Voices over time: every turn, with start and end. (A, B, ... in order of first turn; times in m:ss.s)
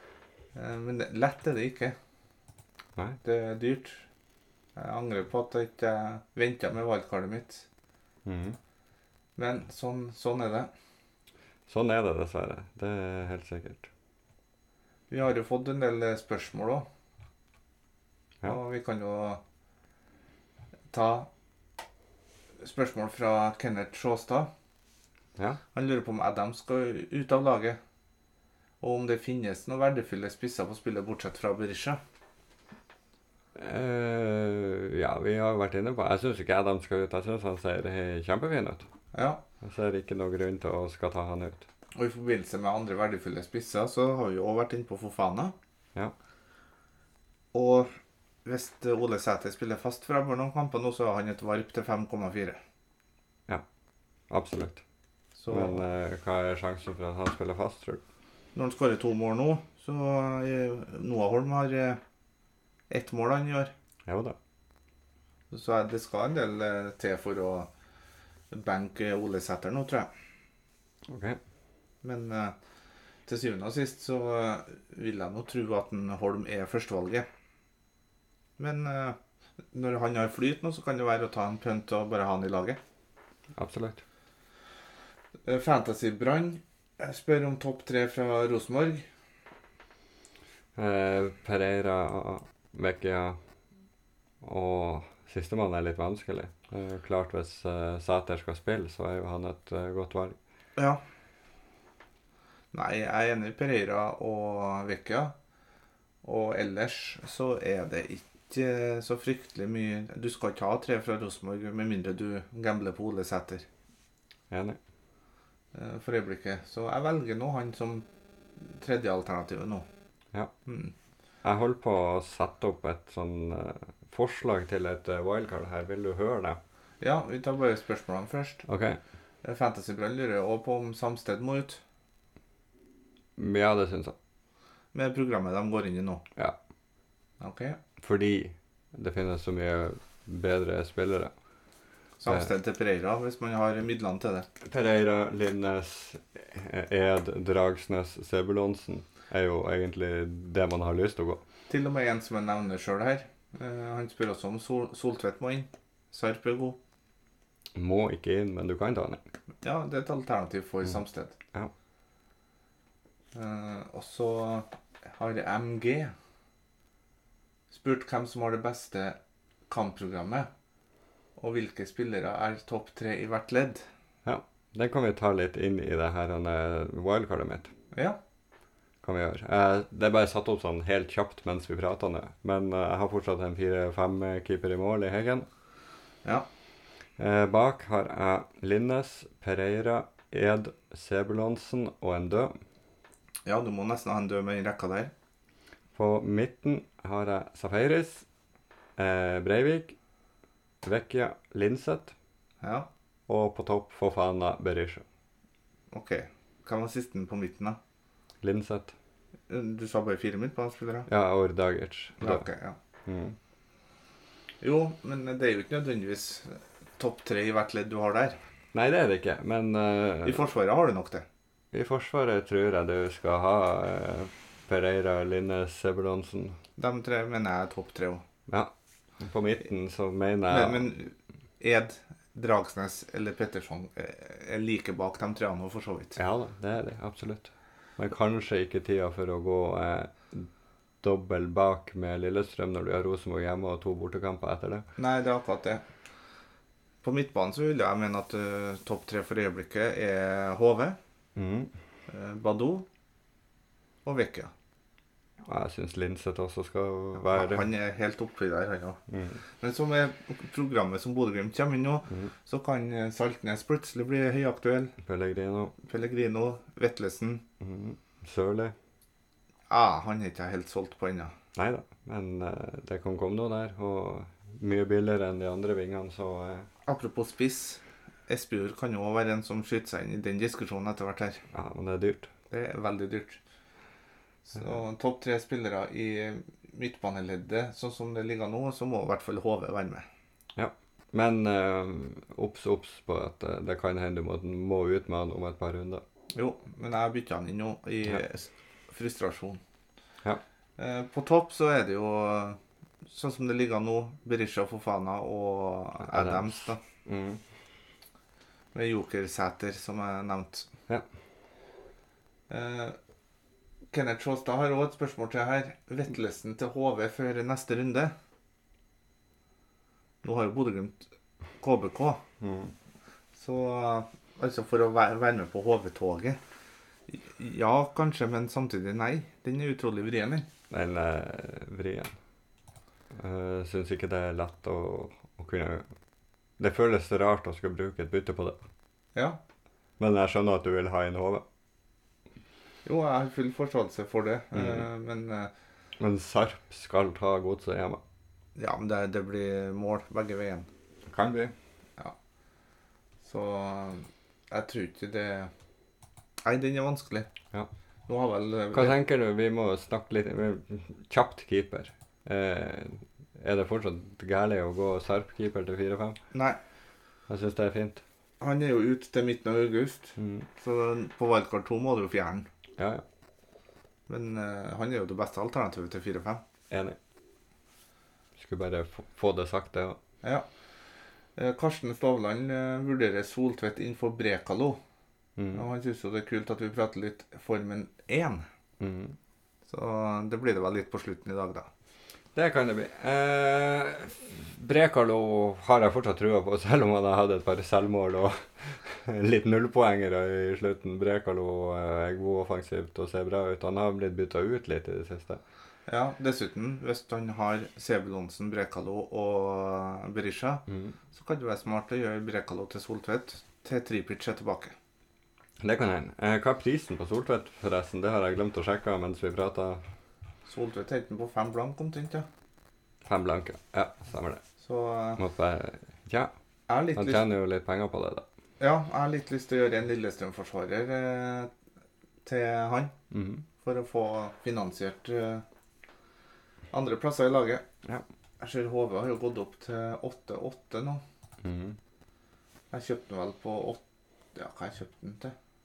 0:00.6-0:02.0 A
0:03.2-0:04.1 A
0:04.8-0:07.7 A
0:08.2-0:08.6 B
0:09.4-0:10.7 A
0:11.7-0:13.9 B
0:15.1-0:16.9 A
0:18.4-0:19.4 A
0:20.9-0:21.3 A
0:22.6-0:24.5 A
0:25.7-0:27.8 A
0:28.8-0:32.0 A
0:33.6-0:38.9 B
0:39.1-0:39.4 A
0:39.6-0:41.7 B
0:42.0-0:45.6 A
0:47.5-0:47.9 A
0:48.4-0:52.6 A
0:54.3-0:54.8 B
0:55.4-0:55.8 A
0:55.5-0:58.0 B
0:58.6-1:02.0 A
1:02.9-1:03.7 A
1:04.1-1:04.4 B
1:05.5-1:07.7 A
1:08.5-1:10.1 A
1:11.1-1:11.4 B
1:12.0-1:12.6 A
1:13.3-1:17.3 A
1:18.6-1:19.2 A
1:19.7-1:22.8 A
1:23.6-1:24.0 B
1:25.5-1:29.1 A
1:30.8-1:33.4 B
1:34.4-1:40.4 B
1:42.7-1:45.3 A
1:46.2-1:53.6 A
1:54.5-1:54.8 B
1:55.7-1:58.1 A
1:58.6-1:59.9 A
2:00.7-2:00.9 A
2:01.4-2:06.6 B
2:07.0-2:08.6 A
2:08.7-2:09.0 B
2:09.4-2:11.8 A
2:13.4-2:14.2 B
2:14.9-2:16.2 A
2:17.4-2:17.8 A
2:18.0-2:21.3 B
2:22.2-2:24.5 A
2:24.6-2:31.4 B
2:31.7-2:36.8 A
2:37.8-2:39.2 B
2:39.6-2:41.4 A
2:43.3-2:46.1 A
2:47.7-2:49.2 A
2:49.7-2:50.5 A
2:51.4-2:53.9 A
2:54.2-2:57.7 B
2:57.9-2:58.2 A
2:59.0-3:05.5 B
3:07.2-3:12.5 B
3:13.5-3:15.1 A
3:16.0-3:18.3 B
3:19.0-3:20.0 B
3:20.8-3:22.1 B
3:22.6-3:22.9 A
3:23.3-3:25.0 B
3:25.9-3:27.8 A
3:28.4-3:28.9 B
3:29.5-3:31.1 A
3:31.1-3:32.4 B
3:32.2-3:32.8 A
3:33.1-3:33.4 B
3:34.6-3:38.4 A
3:38.7-3:40.4 B
3:40.2-3:41.2 A
3:41.7-3:46.6 B
3:46.8-3:48.2 A
3:48.5-3:50.9 B
3:50.5-3:56.2 A
3:56.2-4:00.5 B
4:01.0-4:04.9 B
4:05.0-4:05.8 A
4:07.0-4:11.0 A
4:11.4-4:11.7 B
4:12.1-4:12.9 A
4:14.0-4:14.5 A
4:15.4-4:17.7 B
4:17.2-4:19.0 A
4:19.1-4:19.4 B
4:19.6-4:25.0 A
4:25.0-4:25.8 B
4:25.8-4:27.4 A
4:27.6-4:28.8 B
4:29.7-4:31.4 A
4:31.6-4:36.7 B
4:36.9-4:41.4 A
4:41.5-4:42.3 B
4:42.5-4:43.4 A
4:44.5-4:50.0 A
4:50.6-4:56.0 B
4:56.3-4:59.6 A
5:00.8-5:06.8 A
5:06.0-5:07.4 B
5:08.7-5:10.7 A
5:12.5-5:13.0 A
5:13.9-5:18.1 A
5:20.2-5:21.1 A
5:21.6-5:22.2 A
5:22.4-5:22.7 B
5:23.4-5:26.4 A
5:27.1-5:30.5 A
5:30.7-5:32.2 B
5:33.2-5:35.9 B
5:36.6-5:38.6 B
5:40.0-5:41.4 B
5:42.8-5:45.5 A
5:44.5-5:44.9 B
5:46.0-5:48.0 B
5:48.6-5:50.7 A
5:51.1-5:51.5 B
5:53.2-5:55.5 A
5:56.4-5:57.3 A
5:58.1-5:59.0 A
5:58.7-6:06.2 B
6:06.3-6:06.6 A
6:07.3-6:08.0 B
6:08.4-6:12.5 A
6:10.2-6:10.5 B
6:12.8-6:13.0 B
6:14.1-6:16.4 A
6:16.7-6:17.0 B
6:18.4-6:20.0 B
6:21.4-6:24.8 A
6:25.4-6:25.6 B
6:25.5-6:28.4 A
6:28.8-6:29.2 B
6:29.7-6:31.7 A
6:32.3-6:45.4 B
6:45.9-6:54.7 A
6:50.7-6:51.0 B
6:55.6-6:59.8 B
7:00.5-7:02.3 A
7:03.0-7:04.4 B
7:04.6-7:05.2 A
7:05.2-7:06.3 B
7:06.7-7:07.2 A
7:07.0-7:08.2 B
7:08.6-7:11.5 A
7:12.2-7:13.0 A
7:13.1-7:13.4 B
7:13.6-7:15.4 A
7:16.7-7:17.6 A
7:18.4-7:21.0 A
7:21.4-7:21.8 B
7:22.7-7:23.8 A
7:24.4-7:25.4 A